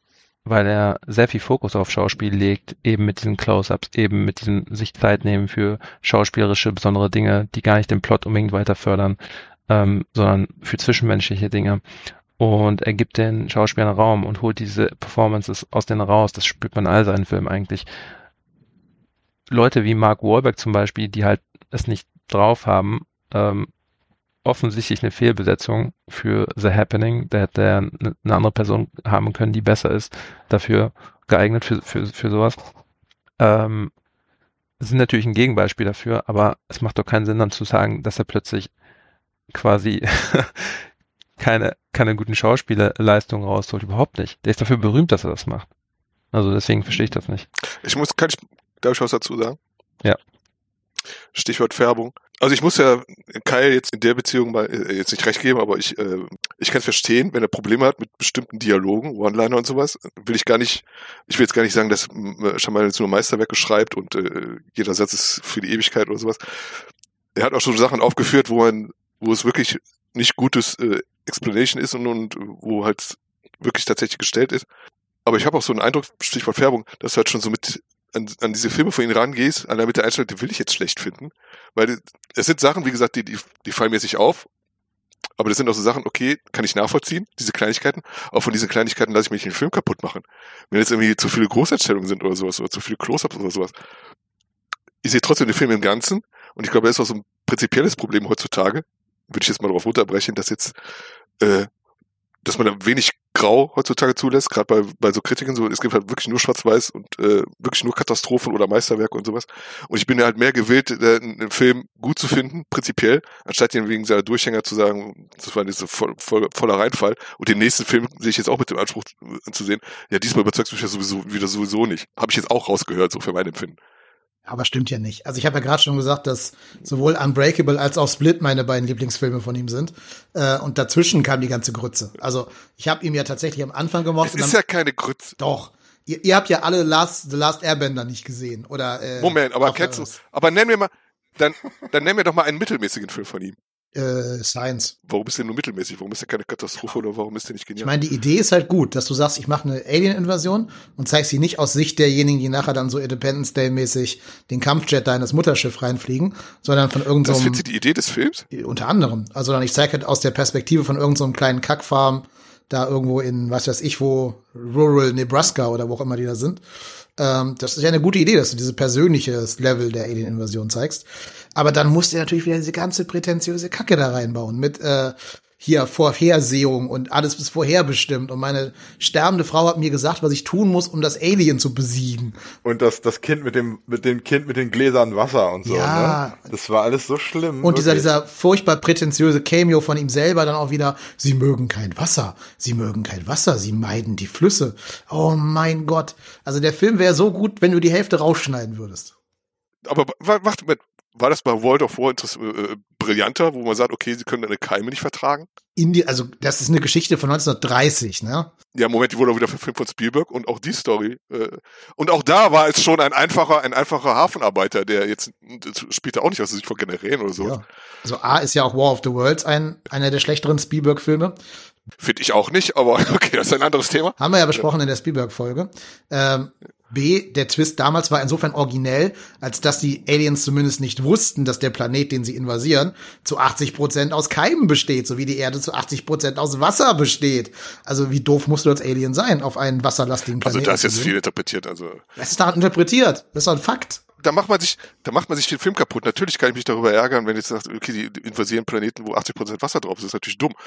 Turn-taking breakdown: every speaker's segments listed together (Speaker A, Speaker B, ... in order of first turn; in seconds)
Speaker A: 0.4-11.8, 12.4-17.9, 19.5-23.7, 24.4-32.6, 33.4-33.9, 34.8-38.7, 39.5-40.9, 41.4-45.7, 46.3-47.5
Speaker B: 47.8-49.6, 51.3-66.7, 67.3-74.7, 75.2-84.5, 85.4-93.7, 95.0-100.7, 101.4-101.7, 102.4-123.8, 134.2-135.3, 139.2-143.6, 145.1-147.9, 157.2-158.4, 199.8-205.5, 208.7-217.6, 222.0-224.6, 240.4-242.0, 244.2-250.6
Speaker C: 124.5-134.6, 135.4-140.1, 143.9-144.9, 147.8-157.6, 158.5-166.6, 167.2-182.4, 185.6-186.5, 187.6-199.1, 205.8-208.5, 217.4-221.3, 224.2-241.2, 242.2-244.0
Speaker D: 182.6-188.1